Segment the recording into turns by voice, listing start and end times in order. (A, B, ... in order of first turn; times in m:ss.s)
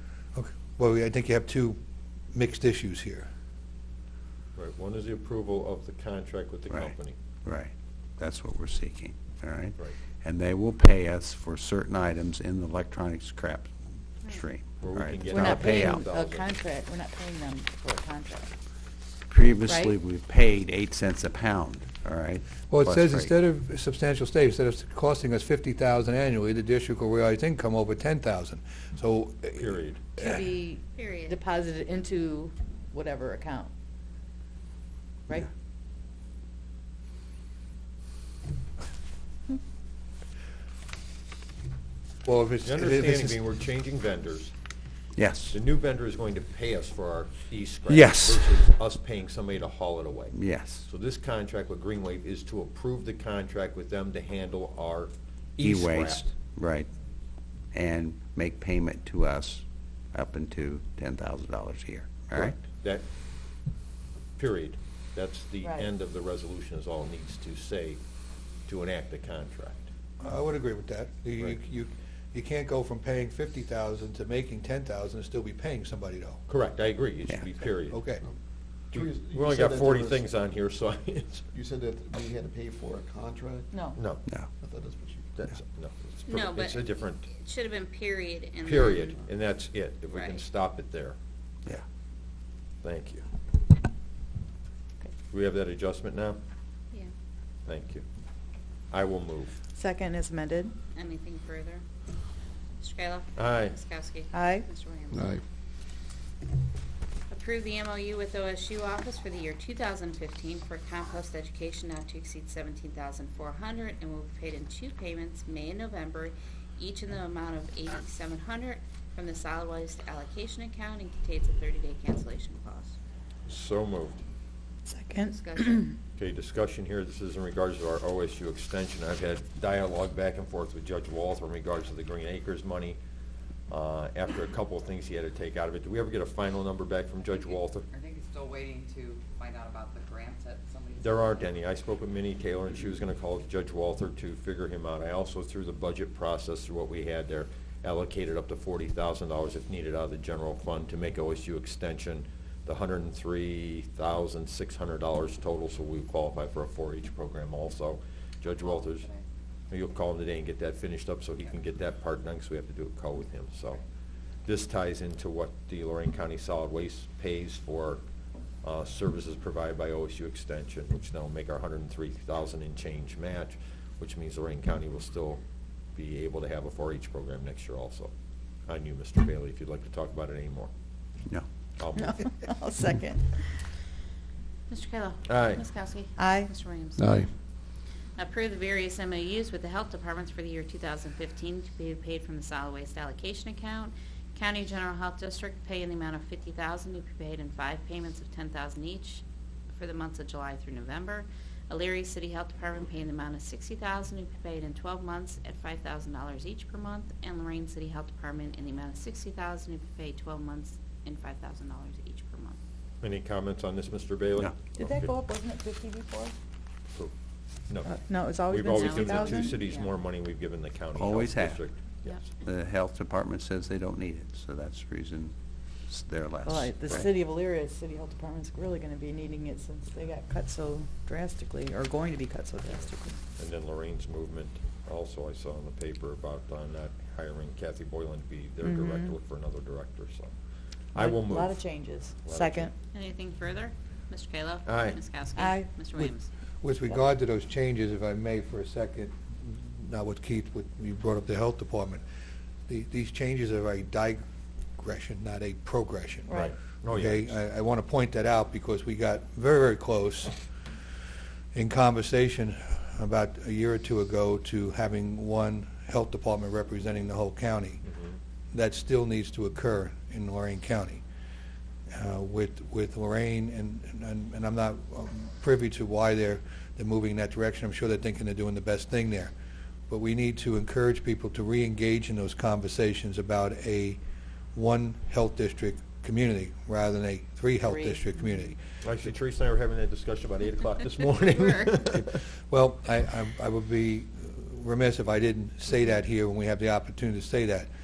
0:00.4-0:01.8 A
0:02.3-0:03.3 A
0:04.6-0:07.2 B
0:06.7-0:16.0 C
0:14.8-0:16.6 B
0:15.3-0:18.5 D
0:19.3-0:23.3 C
0:19.6-0:20.0 D
0:22.7-0:30.4 A
0:29.6-0:30.0 B
0:30.2-0:33.7 D
0:31.0-0:31.4 E
0:42.2-0:43.4 A
0:42.6-0:44.5 B
0:45.2-0:45.6 C
0:45.5-0:56.3 B
0:47.9-0:48.7 C
0:50.3-0:50.9 C
0:55.6-0:56.9 C
0:57.7-1:02.6 C
1:02.4-1:03.0 B
1:04.4-1:08.0 B
1:05.6-1:05.9 D
1:08.7-1:09.9 B
1:10.2-1:16.4 A
1:16.5-1:18.0 B
1:17.9-1:18.2 A
1:18.9-1:20.4 F
1:18.9-1:21.5 B
1:21.5-1:25.4 F
1:23.7-1:24.1 D
1:24.0-1:24.2 B
1:24.2-1:24.5 C
1:25.4-1:27.3 B
1:26.3-1:29.2 E
1:28.6-1:31.2 B
1:30.1-1:30.4 E
1:32.8-1:33.2 B
1:35.3-1:36.4 B
1:37.7-1:38.0 B
1:38.9-1:39.5 B
1:39.8-1:40.8 D
1:41.0-1:41.8 E
1:42.8-1:45.4 E
1:43.4-1:43.8 B
1:44.3-1:44.7 D
1:47.3-2:03.0 E
2:03.5-2:04.2 B
2:04.9-2:05.9 D
2:05.3-2:05.9 E
2:06.2-2:13.0 B
2:13.7-2:17.9 B
2:17.3-2:21.4 G
2:21.0-2:39.1 B
2:38.6-2:39.2 G
2:39.7-2:43.8 B
2:44.4-2:48.0 B
2:48.6-2:55.4 B
2:56.0-2:58.1 B
2:58.7-3:00.7 B
3:01.8-3:02.3 B
3:02.0-3:03.4 D
3:04.7-3:07.1 E
3:05.3-3:05.6 B
3:06.2-3:06.5 D
3:08.2-3:32.6 E
3:33.0-3:35.1 B
3:34.8-3:36.3 D
3:37.8-3:39.6 D
3:38.5-3:42.2 B
3:38.7-3:39.9 E
3:41.0-3:41.6 C
3:42.4-3:45.3 C
3:45.9-3:47.1 C
3:46.4-3:53.2 D
3:53.4-4:00.3 B
3:58.6-3:59.1 D
4:00.9-4:01.6 B
4:01.0-4:02.7 D
4:02.2-4:02.7 B
4:02.9-4:06.3 E
4:04.7-4:05.0 B
4:05.4-4:05.7 D
4:06.6-4:12.0 A
4:12.7-4:14.2 A
4:14.8-4:20.4 A
4:16.3-4:17.4 B
4:21.5-4:27.8 A
4:27.8-4:28.2 B
4:28.5-4:31.0 A
4:31.9-4:39.3 A
4:39.9-4:44.0 A
4:44.5-4:48.6 A
4:47.6-4:48.1 D
4:48.8-4:52.2 B
4:51.4-4:51.7 E
4:52.0-4:57.7 A